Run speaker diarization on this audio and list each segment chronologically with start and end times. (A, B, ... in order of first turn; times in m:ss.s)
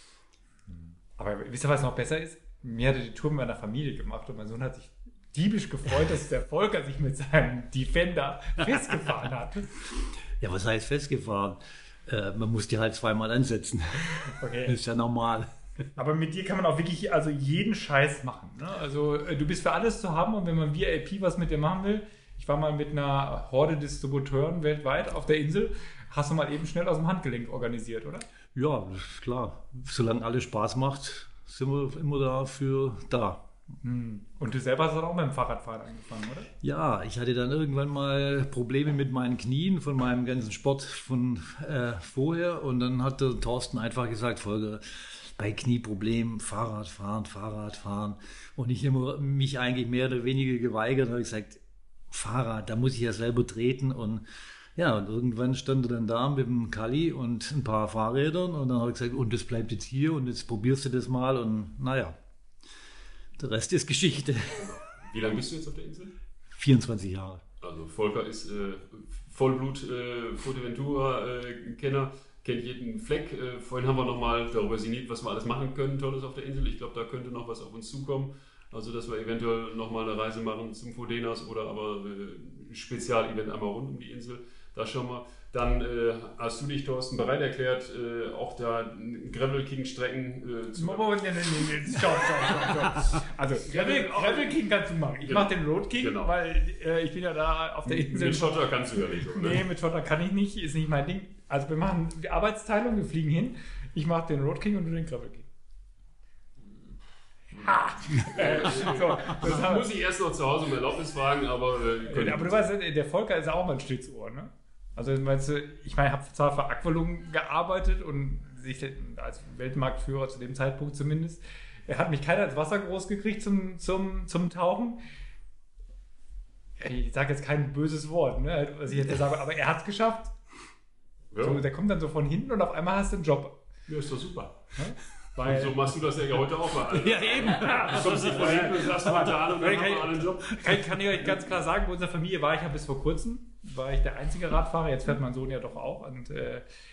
0:00.7-0:09.7 A
0:10.4-0:15.5 B
0:14.4-0:14.7 A
0:16.0-0:28.2 A
0:28.6-0:33.5 B
0:33.8-0:36.5 A
0:36.6-0:51.6 B
0:52.1-0:54.2 B
0:54.8-1:02.2 B
1:03.4-1:04.7 B
1:04.6-1:06.1 C
1:06.5-1:07.4 B
1:07.6-1:31.4 C
1:30.8-1:45.5 A
1:32.0-1:32.9 C
1:33.7-1:34.5 C
1:35.3-1:36.4 C
1:37.9-1:39.6 C
1:47.6-1:49.9 A
1:48.1-1:52.6 C
1:52.1-2:05.0 A
2:06.8-2:10.4 A
2:11.3-2:11.6 C
2:11.4-2:13.6 A
2:13.9-2:14.6 C
2:14.8-2:15.9 A
2:15.4-2:20.6 C
2:17.0-2:18.6 B
2:17.2-2:26.6 A